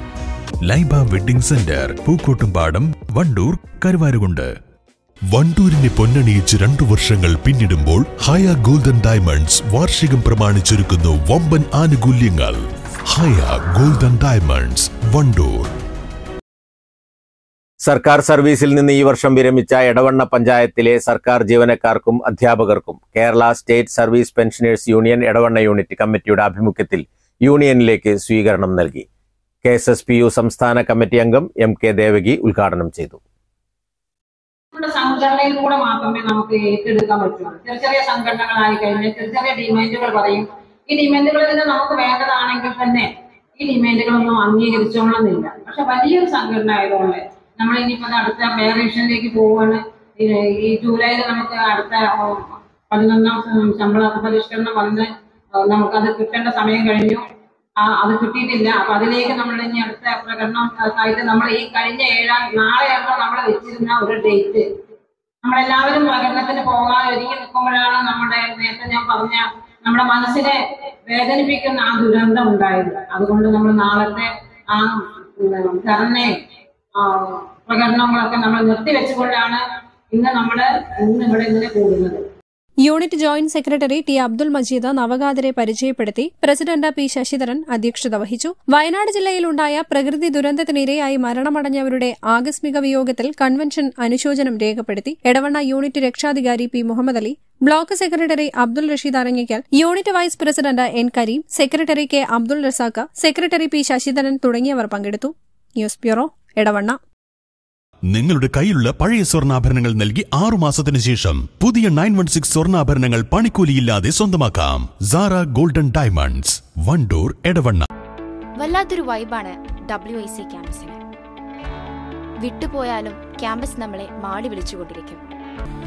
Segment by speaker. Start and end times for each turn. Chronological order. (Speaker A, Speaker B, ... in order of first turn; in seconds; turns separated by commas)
Speaker A: 0.7-4.5, Speaker A: 5.3-15.7, Speaker B: 17.9-29.1, Speaker B: 29.6-33.2, Speaker C: 34.7-43.1, Speaker C: 43.6-57.2, Speaker C: 57.8-64.6, Speaker C: 65.4-76.3, Speaker C: 77.0-79.6, Speaker C: 80.1-82.2, Speaker D: 82.8-107.0, Speaker A: 108.1-117.9, Speaker E: 118.6-121.0, Speaker E: 122.4-125.2